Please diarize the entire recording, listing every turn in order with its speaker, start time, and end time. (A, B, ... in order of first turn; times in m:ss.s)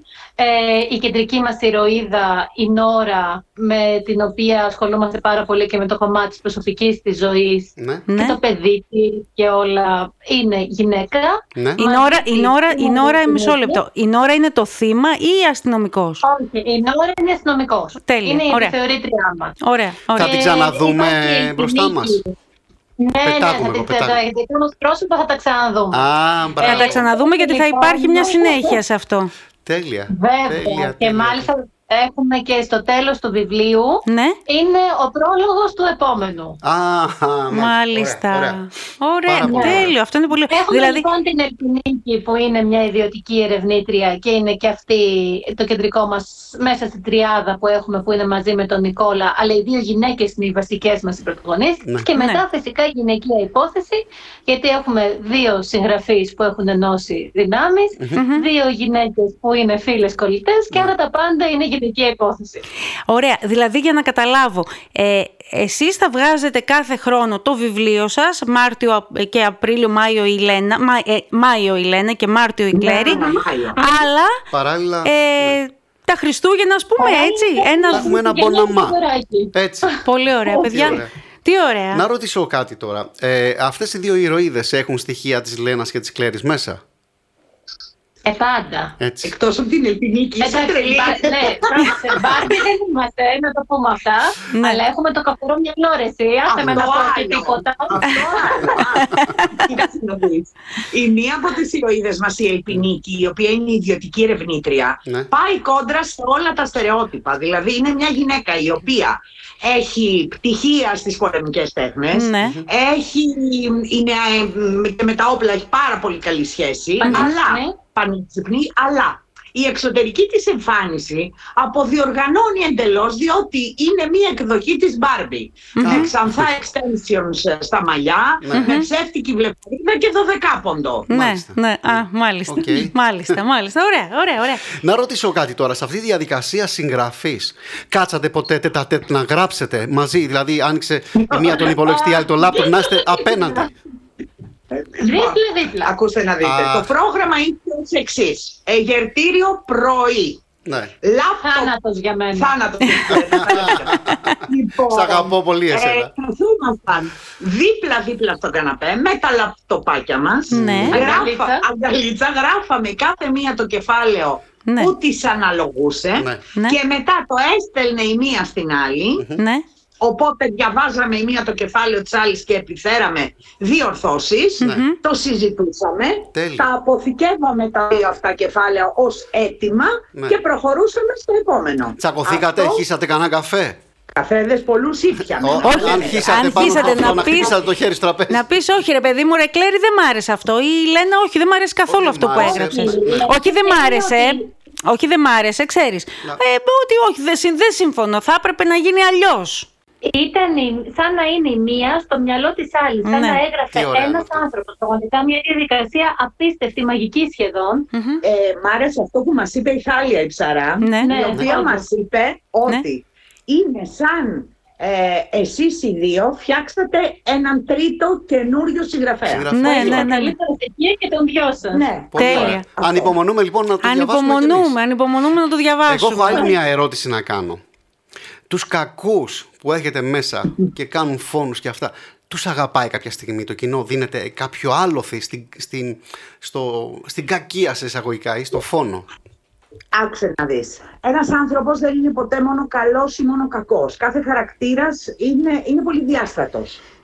0:00.4-0:13.8 A
0:07.8-0:08.0 B
0:08.1-0:08.4 C
0:11.8-0:16.2 C
0:16.2-0:19.6 A
0:18.0-0:18.7 C
0:19.6-0:20.3 C
0:20.1-0:22.3 A
0:20.2-0:22.2 B
0:23.0-0:28.8 A
0:23.2-0:24.2 B
0:25.9-0:27.0 B
0:26.6-0:29.3 C
0:29.6-0:31.5 B
0:30.1-0:36.6 A
0:34.0-0:34.4 C
0:36.6-0:38.6 B
0:37.5-0:41.0 C
0:39.2-0:40.0 B
0:39.4-0:39.9 A
0:40.5-1:02.6 A
0:52.2-0:52.4 C
0:58.2-0:58.5 C
1:03.1-1:14.3 C
1:12.7-1:13.8 D
1:14.5-1:15.6 B
1:15.0-1:18.1 C
1:17.0-1:20.7 A
1:17.9-1:19.0 B
1:19.5-1:19.9 B
1:20.0-1:22.0 C
1:20.6-1:21.1 B
1:21.9-1:26.8 B
1:28.2-1:28.9 A
1:29.0-1:29.3 B
1:29.2-1:32.1 D
1:30.4-1:38.8 A
1:34.5-1:34.8 C
1:36.5-2:11.1 D
1:52.1-1:52.6 C
1:57.0-1:57.8 A
2:05.7-2:06.1 C
2:05.8-2:06.5 B
2:08.4-2:08.8 B
2:08.5-2:08.9 C
2:11.1-2:14.6 C
2:11.1-2:13.4 B
2:14.7-2:23.7 B
2:21.2-2:21.7 D
2:21.6-2:23.7 A
2:24.7-2:30.4 D
2:25.0-2:25.9 A
2:26.4-2:26.9 B
2:30.6-2:30.9 B
2:31.0-2:31.7 D
2:31.4-2:32.5 A
2:32.3-2:49.2 D
2:33.1-2:34.2 B
2:34.9-2:36.1 B
2:40.5-2:41.0 C
2:40.5-2:41.1 B
2:40.9-2:41.6 A
2:44.6-2:45.0 C
2:46.2-2:46.4 B
2:49.4-2:49.6 C
2:50.0-3:02.8 D
2:54.6-2:55.0 C
2:56.3-2:56.6 B
3:02.0-3:03.8 B
3:04.1-3:07.5 D
3:05.4-3:08.4 B
3:05.6-3:07.6 C
3:08.3-3:19.7 C
3:11.9-3:13.3 B
3:12.3-3:14.5 A
3:12.8-3:13.2 D
3:20.0-3:27.9 A
3:23.0-3:23.4 C
3:23.7-3:24.4 B
3:27.9-3:28.2 C
3:28.2-3:39.5 D
3:30.8-3:31.1 C
3:31.0-3:31.9 A
3:39.2-3:40.1 B
3:39.5-3:40.3 C
3:39.6-3:41.8 A
3:41.7-3:43.1 D
3:42.1-3:44.8 B
3:42.2-3:42.6 C
3:43.8-3:46.5 C
3:45.8-3:47.6 B
3:48.5-3:59.1 B
3:59.9-4:06.8 D